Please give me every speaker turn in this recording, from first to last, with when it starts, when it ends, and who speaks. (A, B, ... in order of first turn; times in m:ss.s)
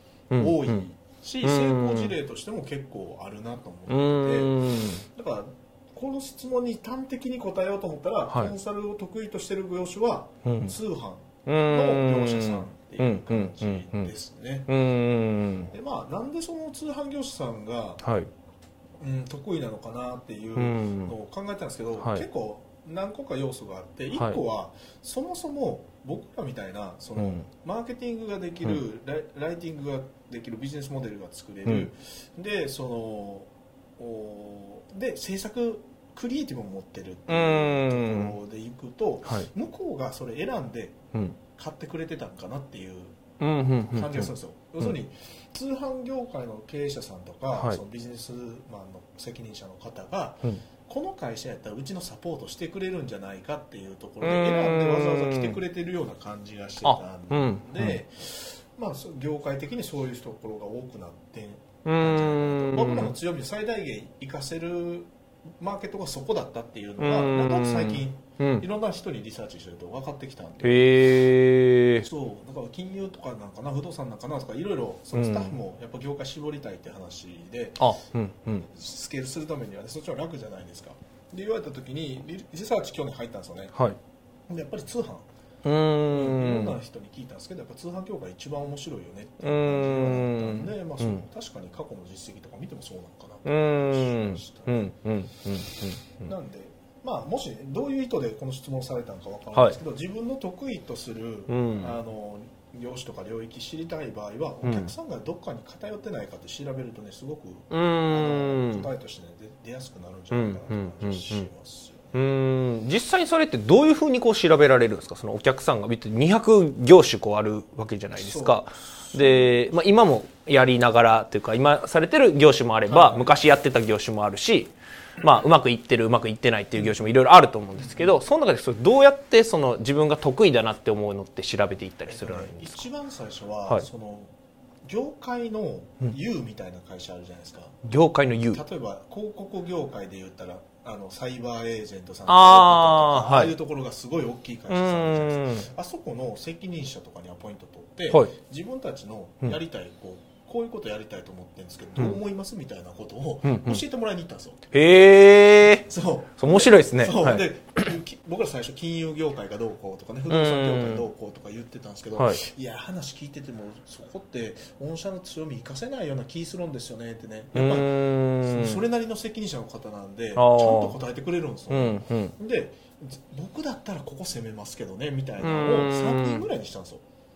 0:00.3-0:00.8 A
0:00.3-0:14.7 B
0:01.4-0:02.1 A
0:03.9-0:05.0 A
0:10.4-0:10.7 A
0:11.5-0:14.1 A
0:14.7-0:15.7 A
0:15.7-0:18.0 B
0:18.0-0:18.3 A
0:19.0-0:41.0 B
0:20.6-0:21.1 A
0:22.0-0:22.2 A
0:24.1-0:24.4 A
0:27.2-0:27.4 A
0:37.3-0:38.4 A
0:41.6-0:43.2 B
0:43.4-0:44.3 A
0:43.9-1:11.0 B
0:47.5-0:47.8 A
0:54.2-0:55.6 A
0:56.8-0:58.0 A
1:01.8-1:03.1 A
1:07.0-1:08.6 A
1:10.6-1:12.1 A
1:12.0-1:23.8 B
1:15.2-1:15.6 A
1:17.8-1:18.6 A
1:24.5-1:25.3 B
1:25.6-1:26.8 A
1:26.1-1:34.9 B
1:29.4-1:31.2 A
1:33.4-1:36.3 A
1:35.6-1:52.2 B
1:41.5-1:42.0 A
1:44.6-1:44.9 A
1:47.7-1:48.9 A
1:50.3-1:51.5 A
1:52.1-2:12.8 A
1:58.2-1:59.6 B
2:02.8-2:03.4 B
2:06.8-2:07.1 B
2:07.8-2:08.2 B
2:12.1-2:14.3 B
2:14.8-2:17.8 B
2:17.8-2:18.6 A
2:18.5-2:34.7 B
2:22.3-2:23.5 A
2:24.7-2:25.7 A
2:33.4-2:33.8 A
2:34.7-2:35.9 A
2:35.9-2:57.0 B
2:36.4-2:37.4 A
2:40.3-2:41.0 A
2:47.6-2:48.8 A
2:50.4-2:51.0 A
2:51.7-2:52.3 A
2:55.4-2:56.4 A